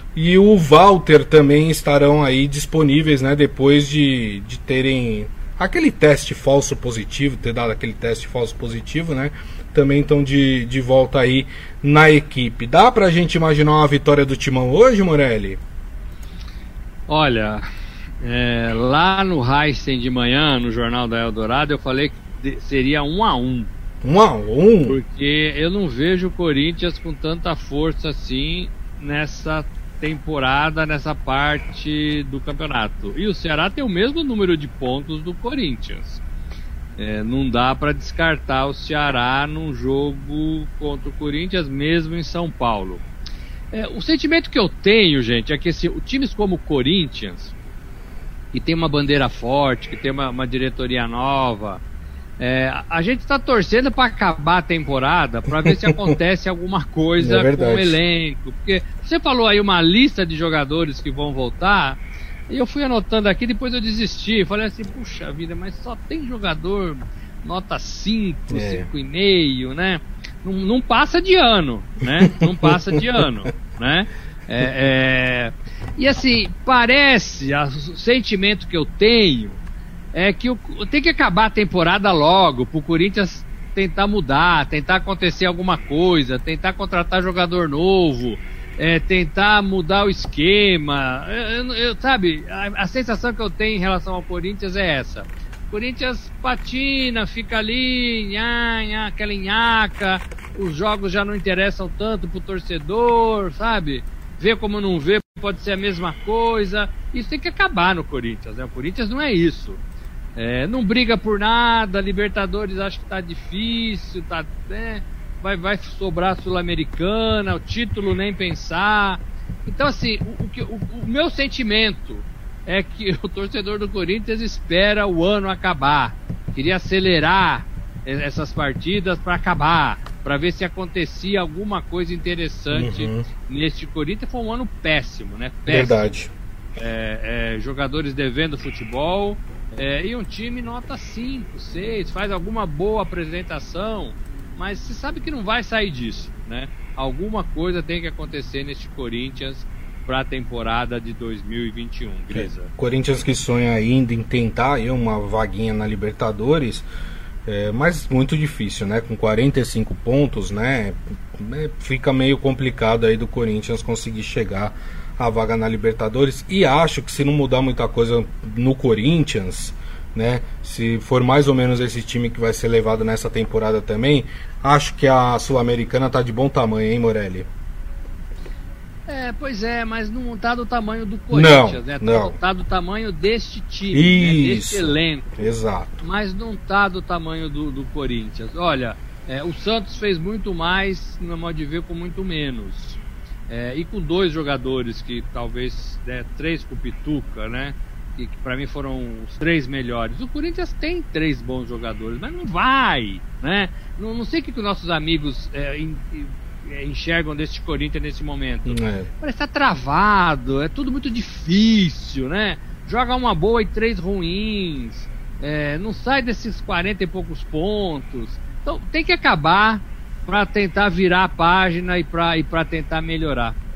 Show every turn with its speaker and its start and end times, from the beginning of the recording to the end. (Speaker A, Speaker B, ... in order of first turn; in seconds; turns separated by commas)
Speaker A: 0.1-15.6, Speaker B: 17.1-17.6, Speaker B: 18.2-23.7, Speaker A: 24.0-25.0, Speaker B: 24.9-36.2, Speaker B: 37.0-43.0, Speaker B: 43.7-47.5, Speaker B: 48.5-51.8, Speaker B: 52.4-79.6, Speaker A: 55.8-56.1, Speaker A: 57.2-58.0, Speaker A: 68.5-68.9, Speaker A: 72.3-73.0, Speaker B: 80.1-109.8, Speaker B: 110.4-136.1, Speaker A: 132.7-133.3, Speaker A: 135.7-136.3, Speaker B: 136.8-152.7, Speaker A: 152.3-156.9, Speaker A: 157.4-177.5, Speaker B: 179.1-223.6, Speaker A: 181.3-182.4, Speaker A: 183.9-186.0, Speaker A: 208.7-209.1